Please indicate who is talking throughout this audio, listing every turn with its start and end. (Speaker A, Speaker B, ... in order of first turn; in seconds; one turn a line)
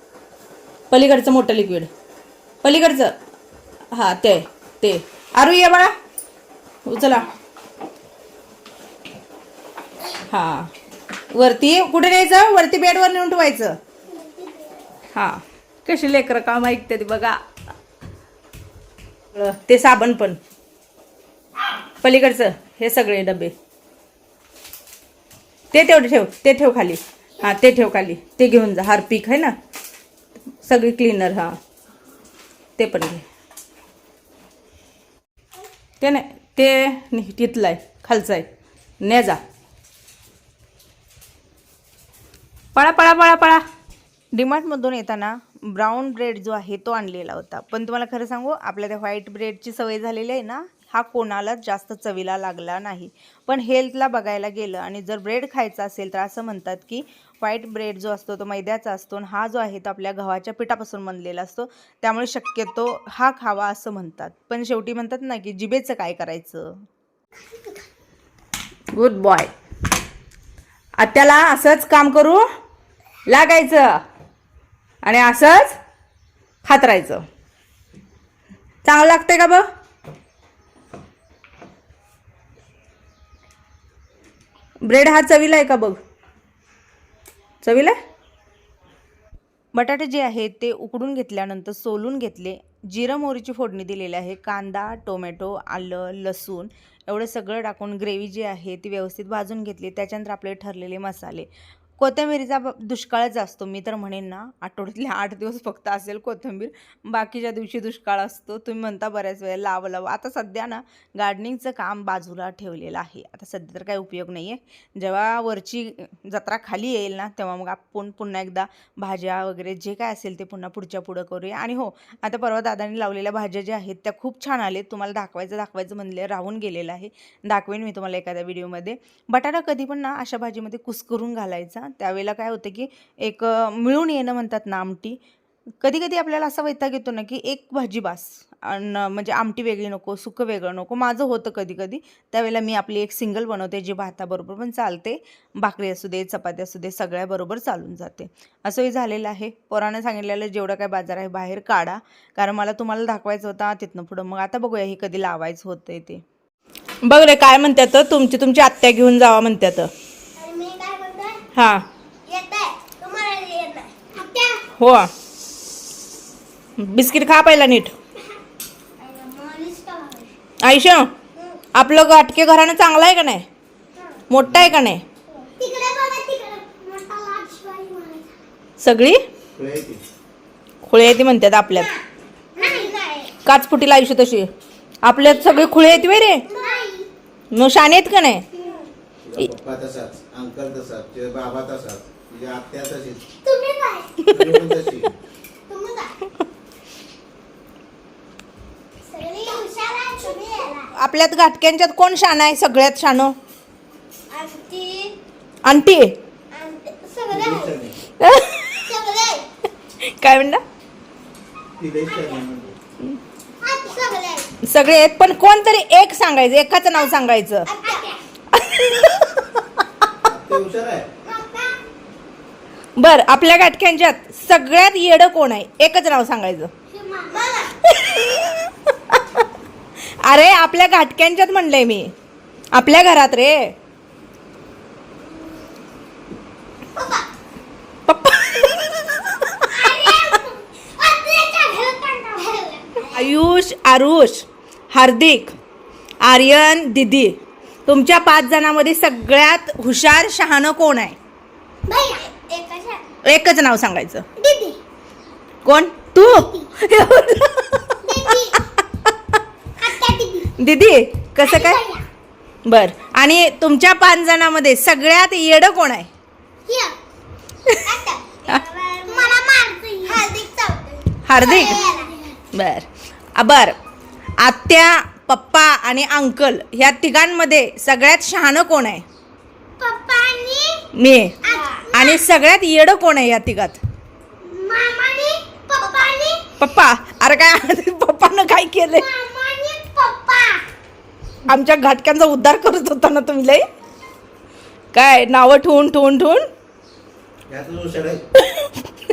Speaker A: 0.9-1.9
Speaker A: 2.6-3.1
Speaker A: 3.9-5.9
Speaker A: 6.9-7.3
Speaker A: 10.3-10.7
Speaker A: 11.3-13.8
Speaker B: 14.1-14.7
Speaker A: 15.2-17.4
Speaker A: 19.3-20.4
Speaker A: 22.0-23.5
Speaker A: 25.7-29.5
Speaker A: 30.6-31.6
Speaker A: 32.8-33.2
Speaker A: 36.0-38.5
Speaker A: 39.0-39.4
Speaker A: 42.8-43.6
Speaker C: 44.3-66.8
Speaker B: 67.4-67.8
Speaker A: 68.9-69.5
Speaker A: 71.0-72.4
Speaker A: 73.3-74.0
Speaker A: 75.0-75.8
Speaker A: 76.7-77.2
Speaker A: 78.8-79.6
Speaker A: 84.8-86.0
Speaker A: 87.6-88.0
Speaker C: 89.8-101.5
Speaker C: 102.0-135.2
Speaker C: 135.8-156.2
Speaker A: 157.0-159.9
Speaker B: 160.4-161.4
Speaker A: 161.6-161.8
Speaker B: 162.3-164.6
Speaker A: 164.8-165.1
Speaker A: 166.8-167.9
Speaker B: 169.0-170.3
Speaker A: 170.6-171.1
Speaker B: 171.3-171.6
Speaker A: 171.7-173.4
Speaker B: 173.9-174.2
Speaker A: 174.3-175.0
Speaker D: 174.4-174.8
Speaker B: 175.3-178.3
Speaker A: 178.8-179.2
Speaker D: 179.6-180.0
Speaker A: 180.9-181.9
Speaker B: 182.6-183.3
Speaker A: 183.4-184.5
Speaker A: 185.0-186.5
Speaker B: 185.2-187.1
Speaker A: 187.5-188.5
Speaker B: 188.5-188.9
Speaker D: 189.2-193.2
Speaker B: 193.4-194.2
Speaker A: 194.3-194.7
Speaker D: 194.3-195.1
Speaker B: 195.7-196.1
Speaker B: 199.1-200.9
Speaker A: 200.9-203.3
Speaker B: 204.3-205.2
Speaker A: 205.7-206.1
Speaker B: 206.5-207.7
Speaker D: 207.3-207.9
Speaker A: 208.2-208.9
Speaker B: 208.8-209.5
Speaker A: 210.0-210.6
Speaker D: 211.8-212.8
Speaker B: 213.6-214.5
Speaker A: 214.7-217.7
Speaker B: 217.7-218.2
Speaker A: 218.5-219.4
Speaker D: 220.2-221.1
Speaker B: 221.2-221.8
Speaker A: 223.0-226.7
Speaker B: 226.9-227.7
Speaker A: 227.9-229.2
Speaker A: 230.2-232.1
Speaker A: 232.7-233.7
Speaker B: 237.0-237.3
Speaker A: 238.1-240.2
Speaker B: 239.7-243.3
Speaker A: 243.1-245.6
Speaker A: 246.2-251.2
Speaker B: 251.9-253.1
Speaker A: 253.2-254.3
Speaker B: 254.4-254.8
Speaker A: 255.7-258.3
Speaker B: 256.2-256.7
Speaker B: 258.0-258.6
Speaker B: 259.8-260.5
Speaker A: 260.6-261.8
Speaker B: 261.4-262.1
Speaker A: 262.7-266.1
Speaker B: 266.7-267.0
Speaker B: 267.8-272.2
Speaker A: 271.2-271.9
Speaker A: 272.5-273.8
Speaker A: 274.4-279.1
Speaker B: 279.8-280.8
Speaker A: 280.9-283.8
Speaker B: 281.4-282.2
Speaker B: 284.4-286.4
Speaker A: 286.6-289.1
Speaker B: 289.0-290.6
Speaker A: 291.5-293.6
Speaker A: 294.9-296.5
Speaker D: 297.5-298.2